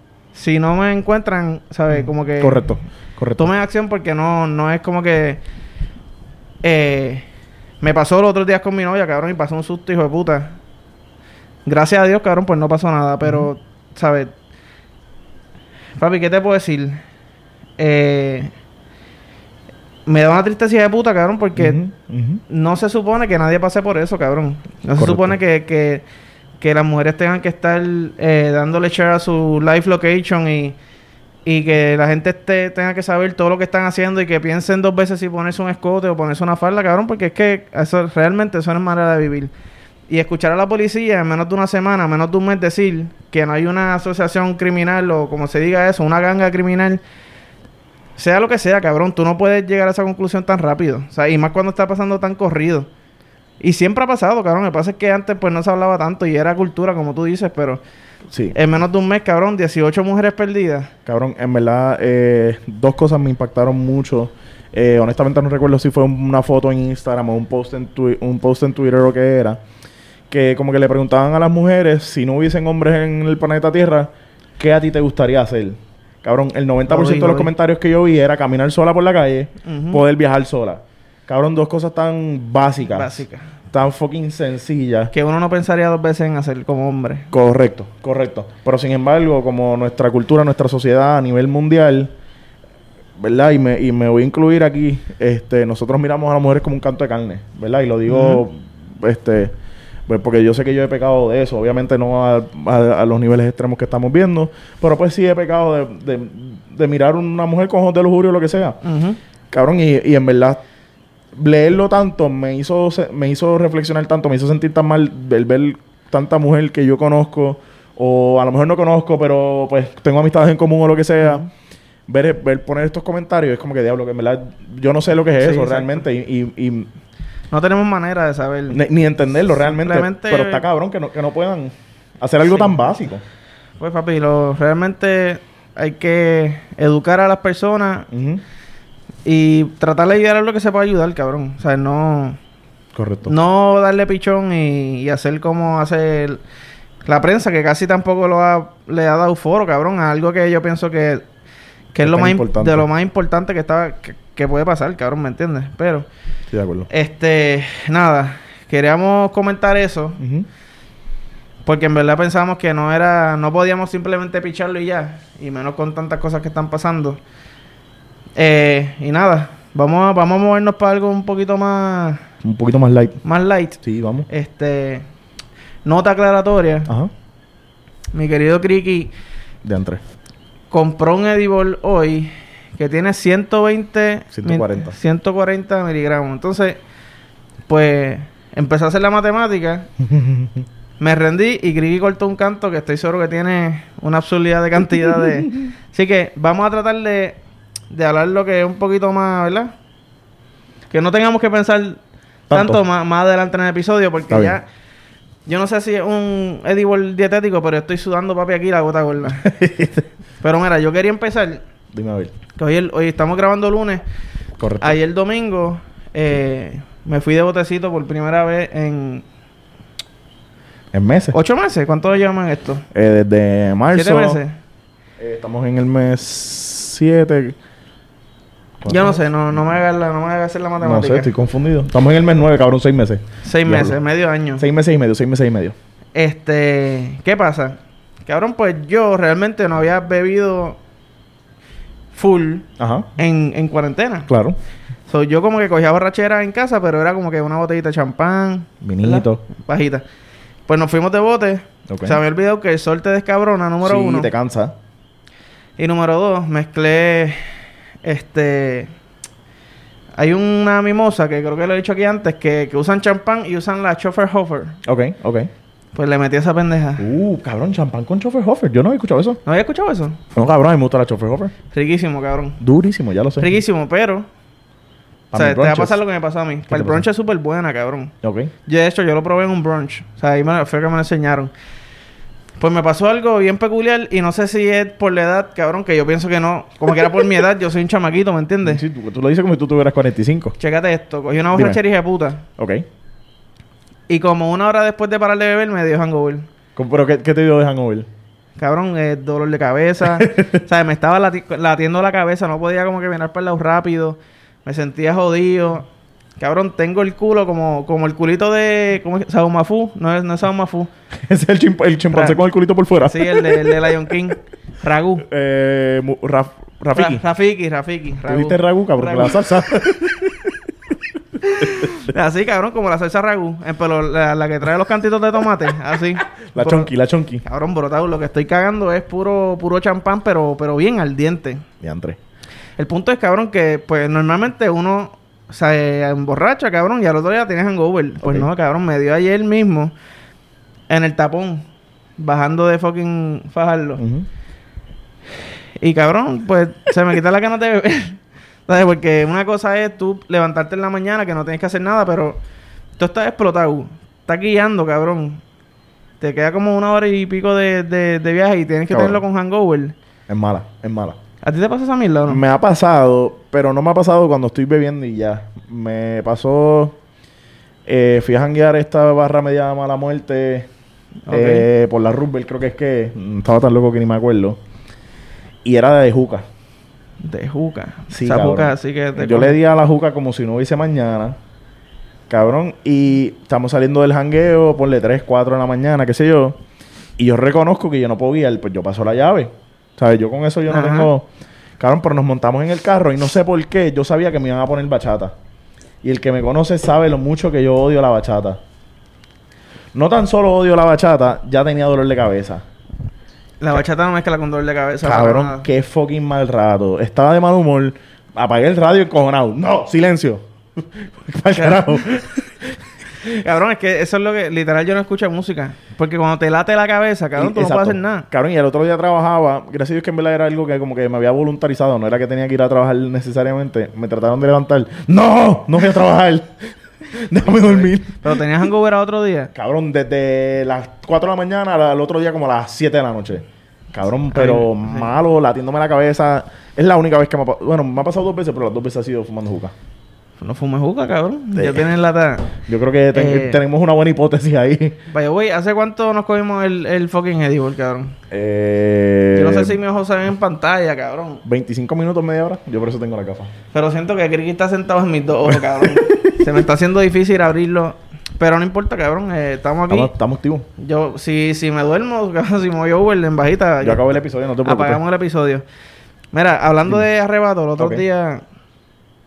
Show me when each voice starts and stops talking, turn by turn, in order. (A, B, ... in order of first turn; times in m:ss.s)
0:00.3-0:02.7 A
0:01.9-0:03.5 B
0:03.4-0:05.4 A
0:06.6-0:07.2 A
0:07.8-0:10.6 A
0:11.6-0:14.3 A
0:13.2-0:13.5 B
0:16.0-0:17.0 A
0:17.8-0:18.5 A
0:20.0-0:21.8 A
0:21.6-0:22.4 B
0:22.5-0:26.0 A
0:25.0-0:25.4 B
0:26.6-0:30.8 A
0:31.4-0:39.5 A
0:40.1-0:47.0 A
0:48.2-0:52.9 A
0:53.6-0:57.8 A
0:58.3-0:58.6 B
0:58.5-1:00.9 A
1:01.0-1:09.6 B
1:10.3-1:23.2 B
1:16.9-1:17.5 A
1:19.6-1:20.0 A
1:22.8-1:23.5 A
1:23.7-1:25.1 B
1:25.1-1:27.3 A
1:27.3-1:32.1 B
1:33.2-1:39.5 B
1:38.1-1:38.4 A
1:40.1-1:48.8 B
1:48.8-1:49.2 A
1:49.5-1:50.6 B
1:51.3-2:01.5 B
2:02.1-2:06.9 B
2:05.4-2:06.0 A
2:07.5-2:08.8 A
2:08.7-2:13.2 B
2:09.6-2:10.6 A
2:13.8-2:18.1 A
2:18.1-2:18.4 B
2:19.2-2:22.4 A
2:22.9-2:23.3 B
2:23.2-2:26.4 A
2:27.0-2:31.2 A
2:31.9-2:36.1 A
2:32.0-2:32.9 B
2:36.5-2:36.9 B
2:36.9-2:40.2 A
2:40.2-2:40.5 B
2:41.6-2:47.2 A
2:48.4-2:52.2 A
2:52.4-2:53.2 B
2:53.2-2:55.0 A
2:53.8-2:54.3 B
2:55.8-2:56.9 A
2:58.1-2:59.1 A
2:59.6-3:00.0 B
3:00.7-3:06.8 A
3:04.3-3:05.0 B
3:07.7-3:09.9 A
3:10.0-3:10.6 B
3:11.0-3:17.4 A
3:17.9-3:19.7 A
3:20.9-3:24.6 A
3:22.5-3:22.8 B
3:24.3-3:24.6 B
3:25.4-3:29.5 A
3:29.4-3:30.1 B
3:30.4-3:31.6 A
3:31.9-3:32.3 B
3:32.6-3:34.0 A
3:34.6-3:35.0 B
3:34.8-3:39.2 A
3:40.9-3:41.4 B
3:41.3-3:42.8 A
3:42.9-3:44.4 B
3:43.9-3:44.6 A
3:45.2-3:47.5 B
3:48.8-3:49.2 B
3:48.9-3:51.3 A
3:50.8-3:54.0 B
3:53.4-3:54.6 A
3:54.6-3:55.8 B
3:56.1-4:00.8 A
4:02.1-4:04.3 A
4:02.8-4:03.1 B
4:04.3-4:04.6 B
4:05.1-4:10.0 A
4:08.8-4:09.4 B
4:10.7-4:14.3 A
4:11.9-4:12.2 B
4:13.8-4:14.7 B
4:15.8-4:17.4 A
4:18.0-4:18.9 A
4:20.2-4:24.8 A
4:24.8-4:25.5 B
4:25.9-4:27.1 A
4:27.0-4:29.4 B
4:29.4-4:30.2 A
4:30.3-4:31.5 B
4:31.7-4:32.6 A
4:32.6-4:33.5 B
4:33.4-4:34.2 A
4:35.3-4:36.0 B
4:35.3-4:38.1 A
4:36.7-4:37.0 B
4:38.2-4:38.5 B
4:38.6-4:41.5 A
4:42.6-4:48.8 A
4:48.6-4:50.6 B
4:50.6-4:52.4 A
4:51.5-4:51.8 B
4:52.6-4:52.8 B
4:54.1-4:56.5 A
4:56.8-4:58.1 B
4:58.6-5:05.9 A
5:00.1-5:00.6 B
5:06.4-5:10.9 A
5:11.2-5:14.1 B
5:12.1-5:12.4 A
5:13.0-5:15.2 A
5:15.2-5:17.2 B
5:16.9-5:20.2 A
5:18.3-5:20.5 B
5:21.4-5:26.9 A
5:21.6-5:21.9 B
5:26.4-5:27.4 B
5:27.4-5:31.6 A
5:31.8-5:32.2 B
5:32.8-5:39.9 A
5:38.2-5:38.5 B
5:40.9-5:41.6 A
5:42.2-5:44.0 A
5:44.0-5:44.3 B
5:45.8-5:52.4 A
5:53.0-5:55.4 A
5:56.2-5:59.9 A
5:58.9-5:59.2 B
6:00.3-6:01.2 B
6:01.4-6:02.4 A
6:02.3-6:07.0 B
6:07.8-6:10.7 B
6:11.3-6:11.7 A
6:11.3-6:14.6 B
6:15.6-6:16.4 B
6:17.2-6:19.6 A
6:18.1-6:21.4 B
6:22.3-6:26.6 B
6:27.2-6:31.3 B
6:30.7-6:31.1 A
6:31.8-6:35.3 B
6:36.0-6:38.6 B
6:39.9-6:42.6 B
6:43.6-6:45.7 A
6:45.0-6:52.7 B
6:51.5-6:52.0 A
6:53.2-6:58.3 A
6:57.4-7:08.4 B
7:07.4-7:09.5 A
7:09.5-7:19.7 B
7:14.3-7:15.1 A
7:20.4-7:22.6 A
7:21.6-7:21.9 B
7:22.6-7:25.0 B
7:23.1-7:23.6 A
7:25.1-7:28.2 A
7:28.3-7:29.8 B
7:29.3-7:31.4 A
7:31.4-7:33.5 B
7:33.7-7:40.1 A
7:35.5-7:36.3 B
7:39.9-7:40.7 B
7:40.8-7:44.0 A
7:43.8-7:45.0 B
7:44.6-7:45.6 A
7:46.3-7:48.4 A
7:47.8-7:48.0 B